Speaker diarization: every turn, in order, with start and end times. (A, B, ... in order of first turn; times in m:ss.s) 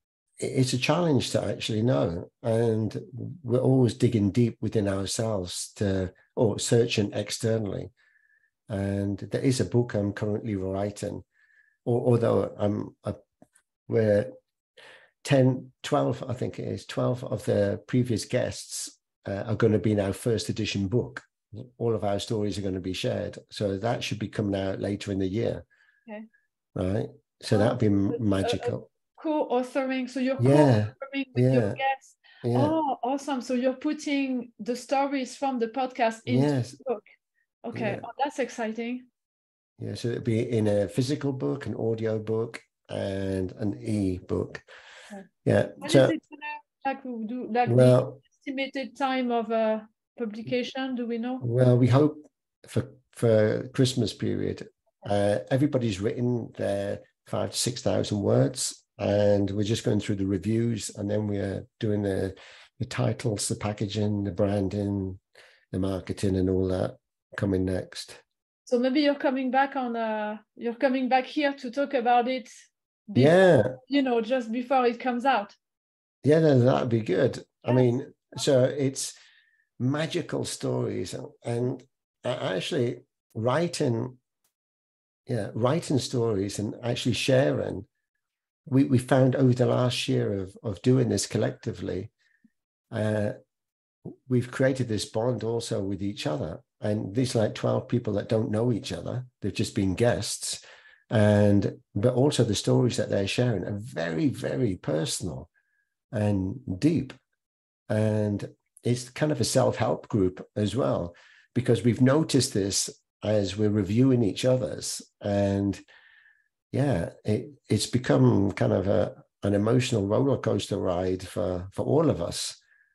0:00.4-0:07.9 A
0:08.7-0:11.2 A
0:11.8-0:13.2 A
0:13.9-0:14.3 A
0:15.2-0:25.6 A
0:26.7-0:28.9 A
0:27.5-0:37.0 B
0:30.4-0:31.8 A
0:32.4-0:32.8 A
0:36.2-0:36.8 A
0:37.6-0:39.0 B
0:37.7-0:38.0 A
0:39.8-0:44.6 A
0:45.4-0:46.2 A
0:45.8-0:51.4 B
0:47.7-0:48.2 A
0:51.4-1:05.2 A
1:05.7-1:08.2 A
1:08.6-1:12.5 B
1:13.1-1:15.6 B
1:13.1-1:13.8 A
1:16.2-1:19.1 A
1:19.8-1:24.2 A
1:25.3-1:27.9 A
1:28.7-1:32.1 A
1:32.9-1:33.3 A
1:34.3-1:45.5 A
1:46.1-1:47.2 A
1:47.9-1:55.8 A
1:56.7-2:02.6 A